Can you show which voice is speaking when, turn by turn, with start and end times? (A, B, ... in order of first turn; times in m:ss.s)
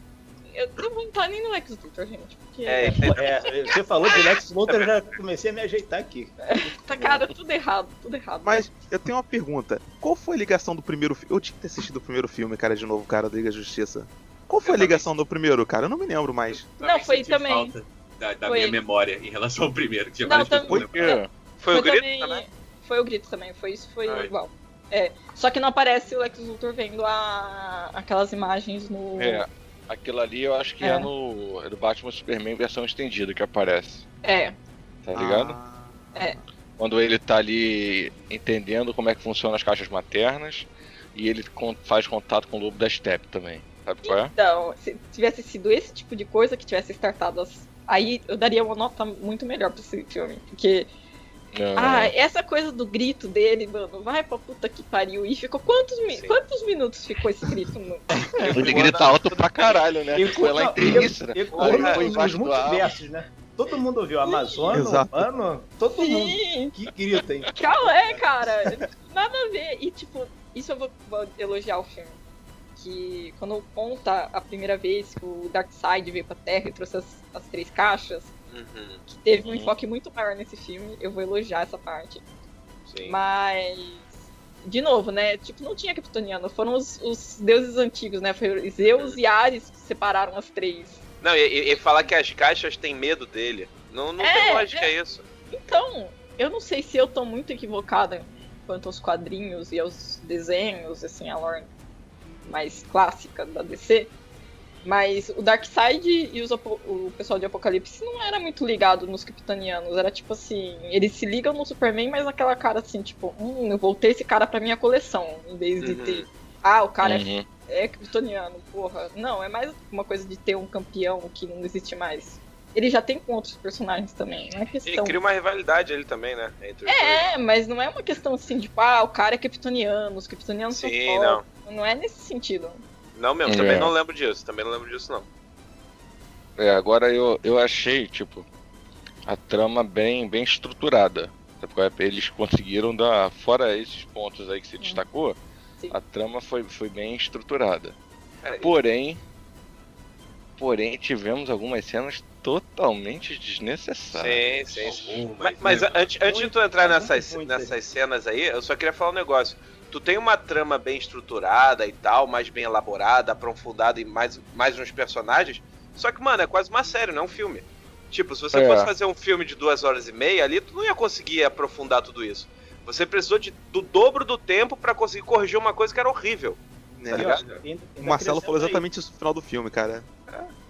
0:00.5-0:03.0 A
0:02.7-0:03.5 B
0:02.8-0:06.4 C
0:04.1-0:04.9 B
0:06.4-0:08.7 A
0:08.4-0:16.7 D
0:14.6-0:15.1 B
0:16.5-0:21.0 E
0:16.8-0:17.7 A
0:18.4-0:18.8 A
0:20.2-0:29.4 A
0:20.7-0:21.3 F
0:21.6-0:22.4 B
0:29.2-0:34.0 F
0:30.8-0:31.1 A
0:34.2-0:34.5 A
0:35.0-0:35.6 F
0:35.1-0:36.3 D
0:36.8-0:44.3 F
0:44.0-0:50.9 A
0:51.5-0:52.1 F
0:51.8-0:58.0 A
0:56.1-0:56.4 B
0:58.4-0:59.8 B
0:58.4-1:02.9 F
1:00.1-1:08.9 C
1:01.5-1:02.2 B
1:04.2-1:04.8 A
1:04.7-1:05.2 D
1:06.0-1:06.7 A
1:07.5-1:12.2 A
1:12.8-1:18.3 A
1:18.5-1:19.0 B
1:19.1-1:22.2 A
1:19.4-1:19.7 F
1:22.9-1:23.2 B
1:23.0-1:24.0 A
1:24.6-1:31.0 A
1:31.2-1:35.2 B
1:34.2-1:34.9 A
1:35.5-1:41.7 A
1:42.4-1:44.1 A
1:44.8-2:05.2 A
1:55.8-1:56.3 B
1:57.0-1:57.4 F
2:04.8-2:07.2 B
2:06.8-2:12.8 A
2:10.7-2:11.4 B
2:13.1-2:15.2 B
2:13.4-2:13.9 F
2:16.6-2:18.4 F
2:19.2-2:25.4 F
2:25.9-2:27.9 F
2:28.4-2:28.8 B
2:28.6-2:29.2 F
2:30.6-2:34.4 F
2:34.1-2:56.6 B
2:34.8-2:36.1 E
2:36.2-2:37.8 C
2:48.5-2:48.9 F
2:57.0-2:57.4 D
2:57.1-2:58.8 C
2:57.1-2:57.4 B
2:57.2-2:57.6 E
2:58.0-3:00.1 D